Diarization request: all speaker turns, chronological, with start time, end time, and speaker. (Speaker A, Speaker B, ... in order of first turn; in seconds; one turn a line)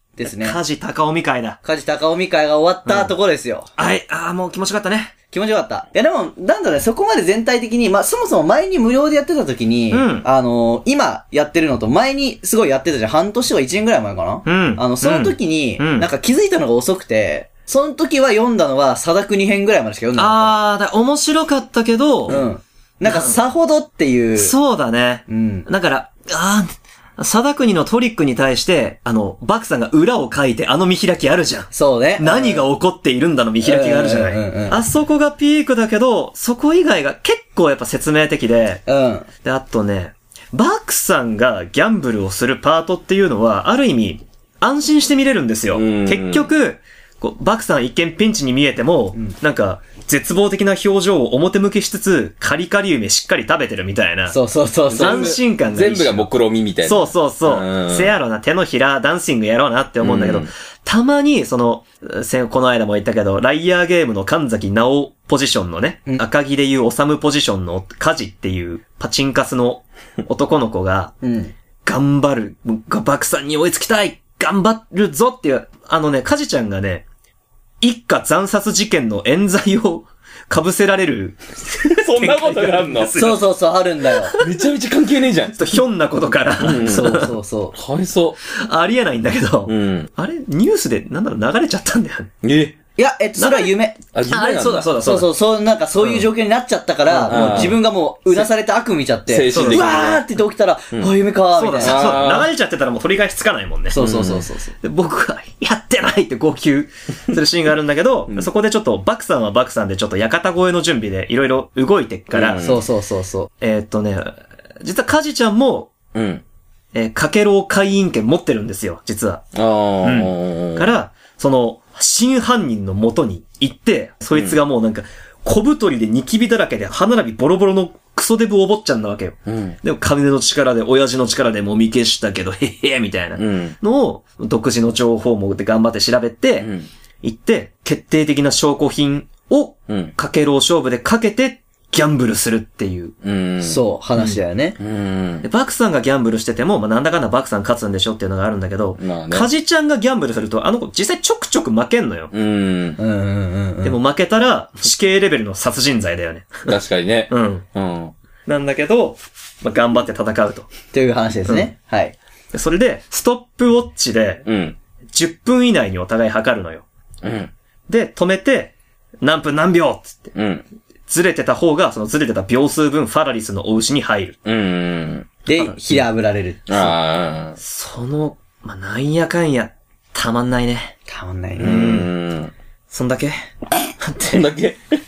Speaker A: 0.2-0.6
Speaker B: 0.3-1.6
Speaker A: 1.6-3.7
Speaker B: 2.9-3.1
Speaker B: 3.8-5.1
Speaker A: 5.3-20.6
Speaker B: 9.9-10.3
Speaker B: 14.5-16.1
Speaker B: 20.2-22.4
Speaker A: 22.3-24.5
Speaker B: 23.1-23.4
Speaker B: 24.4-38.8
Speaker A: 25.3-25.7
Speaker A: 31.7-32.7
Speaker A: 33.6-34.8
Speaker A: 38.9-39.3
Speaker B: 39.4-54.4
Speaker C: 45.7-46.5
Speaker A: 54.3-55.4
Speaker C: 54.9-58.1
Speaker B: 54.9-56.3
Speaker B: 56.8-71.2
Speaker C: 60.0-60.5
Speaker A: 71.2-71.5
Speaker B: 71.8-77.1
Speaker B: 77.8-83.5
Speaker C: 81.9-83.2
Speaker A: 83.1-84.3
Speaker B: 84.2-84.6
Speaker C: 84.4-85.8
Speaker B: 85.5-87.3
Speaker C: 86.6-88.4
Speaker A: 86.8-87.8
Speaker B: 88.5-92.3
Speaker C: 89.7-90.1
Speaker C: 92.4-92.8
Speaker A: 93.0-94.4
Speaker B: 93.4-93.7
Speaker C: 94.1-94.9
Speaker B: 94.3-95.3
Speaker A: 95.0-102.1
Speaker B: 97.1-97.8
Speaker C: 97.3-97.8
Speaker C: 99.3-100.3
Speaker B: 99.5-100.1
Speaker B: 101.5-104.0
Speaker C: 101.8-102.5
Speaker A: 103.9-104.7
Speaker C: 104.0-104.5
Speaker B: 104.8-112.6
Speaker C: 112.3-112.9
Speaker A: 112.6-113.5
Speaker B: 113.6-115.9
Speaker C: 116.1-116.4
Speaker B: 116.9-119.4
Speaker C: 119.5-120.9
Speaker B: 120.0-136.7
Speaker C: 129.5-129.8
Speaker C: 133.4-133.8
Speaker C: 136.6-136.9
Speaker B: 137.2-143.1
Speaker C: 139.9-140.1
Speaker C: 143.2-143.8
Speaker A: 143.6-144.8
Speaker C: 144.8-145.5
Speaker B: 145.4-152.3
Speaker C: 149.0-149.5
Speaker C: 152.3-153.0
Speaker A: 153.0-154.0
Speaker B: 153.8-156.7
Speaker C: 156.7-158.1
Speaker B: 157.3-157.7
Speaker B: 158.5-160.7
Speaker A: 160.9-162.2
Speaker B: 162.5-164.4
Speaker C: 164.5-164.8
Speaker B: 165.1-166.9
Speaker C: 167.2-167.5
Speaker B: 167.9-170.3
Speaker C: 170.3-170.7
Speaker B: 171.1-174.4
Speaker C: 174.4-175.4
Speaker A: 175.5-176.9
Speaker B: 175.5-175.8
Speaker C: 176.7-177.6
Speaker B: 177.6-180.9
Speaker A: 181.1-182.0
Speaker B: 181.6-182.1
Speaker C: 181.6-182.5
Speaker B: 182.9-183.4
Speaker B: 184.0-184.5
Speaker C: 184.3-184.9